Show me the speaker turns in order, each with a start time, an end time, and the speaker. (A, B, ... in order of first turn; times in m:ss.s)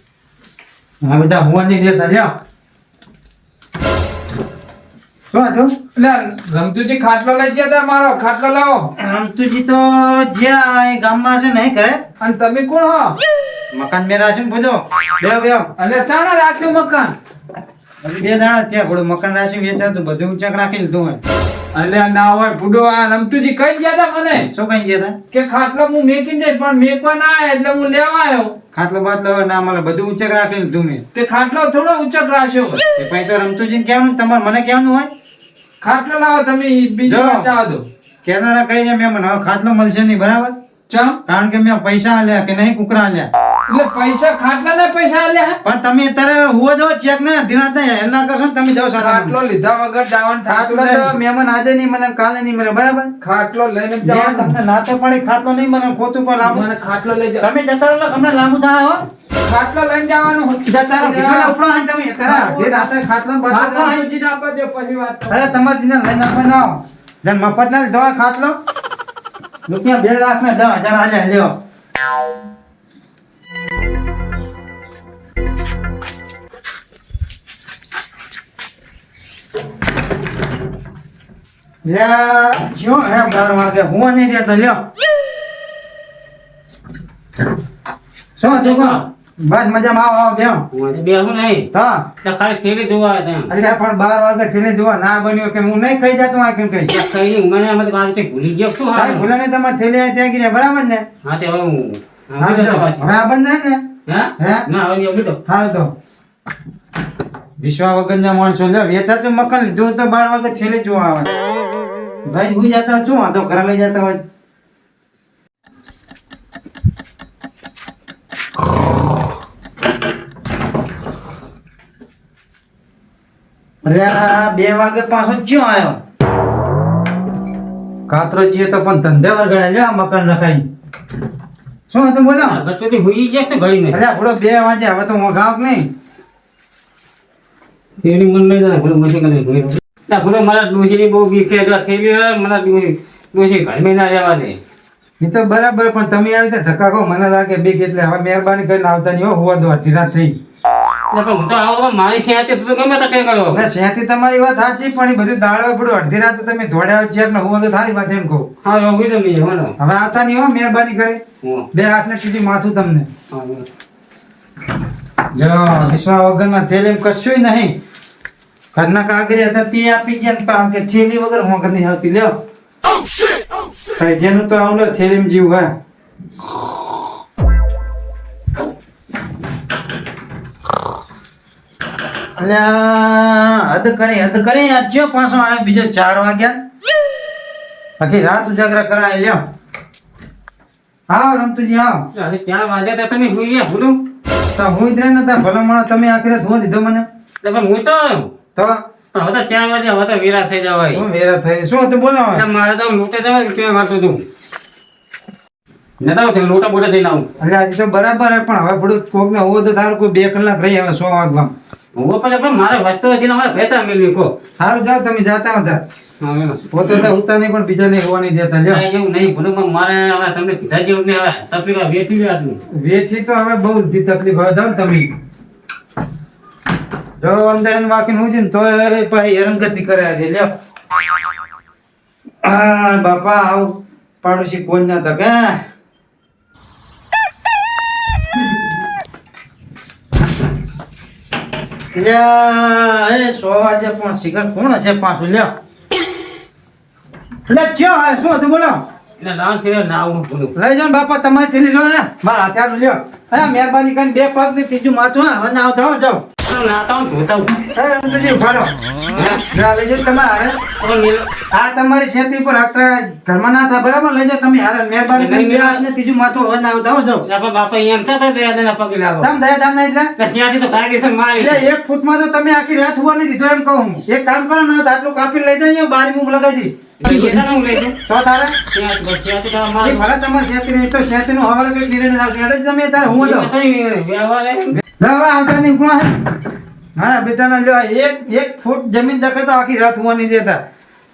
0:01.0-0:02.3 A
0:05.3-0:05.8 A
0:06.0-0:08.9 B
0:09.0-0:12.0 A
0:12.2-0:13.2 B
0:13.7-0:15.7 A
0:15.8-0:17.2 B
0:18.0-0:21.2 A
0:21.7-0:24.5 B
0:24.4-0:25.2 A
0:25.3-0:28.5 B
0:28.7-0:31.0 A
0:31.1-0:32.8 B
0:33.0-0:35.1 A
0:35.8-0:37.8 B
0:37.1-0:37.5 A
0:38.2-0:40.6 A
0:40.9-0:41.2 B
0:41.3-0:43.3 A
0:43.7-0:45.6 B
0:45.6-0:49.4 A
0:49.0-0:51.1 B
0:50.5-0:53.1 A
0:53.2-0:54.6 B
0:54.0-0:56.7 A
0:56.4-0:57.5 B
0:57.4-0:59.1 A
0:59.4-1:01.6 B
1:00.7-1:04.1 A
1:02.2-1:02.9 B
1:03.5-1:05.6 B
1:05.3-1:08.6 A
1:09.7-1:11.5 A
1:21.8-1:24.8 A
1:28.4-1:30.6 A
1:28.5-1:29.0 C
1:30.7-1:31.7 C
1:31.7-1:32.0 A
1:32.2-1:33.5 C
1:33.5-1:36.9 A
1:36.9-1:39.3 C
1:38.9-1:41.0 A
1:41.2-1:43.1 C
1:42.4-1:43.8 A
1:44.1-1:45.4 C
1:44.4-1:44.7 A
1:45.5-1:45.9 A
1:47.6-1:51.3 A
1:52.3-1:54.2 A
2:03.8-2:06.0 A
2:08.1-2:10.6 A
2:11.9-2:12.6 A
2:12.4-2:14.0 C
2:13.9-2:15.9 A
2:18.0-2:24.6 C
2:25.2-2:30.4 A
2:31.1-2:33.7 C
2:33.5-2:38.5 A
2:38.6-2:39.8 C
2:39.8-2:41.2 A
2:41.7-2:43.1 A
2:43.3-2:43.7 C
2:45.3-2:47.7 A
2:48.7-2:52.4 A
2:54.0-2:55.7 A
3:02.4-3:06.6 A
3:08.0-3:09.4 A
3:11.1-3:12.0 A
3:12.2-3:14.0 C
3:14.5-3:17.1 A
3:17.4-3:18.3 C
3:19.1-3:21.0 C
3:20.9-3:22.4 A
3:22.3-3:24.2 C
3:26.0-3:27.3 C
3:27.4-3:31.5 A
3:32.0-3:34.3 C
3:34.6-3:35.8 A
3:36.2-3:36.6 C
3:36.7-3:38.8 A
3:38.7-3:42.6 C
3:42.7-3:45.1 A
3:47.2-3:50.5 A
3:52.4-3:55.6 A
4:01.9-4:05.5 A
4:07.5-4:08.8 A
4:09.2-4:10.5 C
4:10.6-4:16.2 A
4:16.5-4:17.6 C
4:17.8-4:18.8 A
4:19.1-4:19.4 C
4:19.4-4:20.6 A
4:20.8-4:21.3 C
4:21.5-4:27.3 A
4:25.2-4:25.8 C
4:27.3-4:29.3 C
4:29.2-4:30.1 A
4:30.2-4:31.6 C
4:31.4-4:37.4 A
4:37.0-4:38.0 C
4:38.1-4:38.6 A
4:38.7-4:40.0 C
4:39.8-4:43.5 A
4:43.1-4:44.8 C
4:45.0-4:46.2 A
4:47.0-4:50.6 A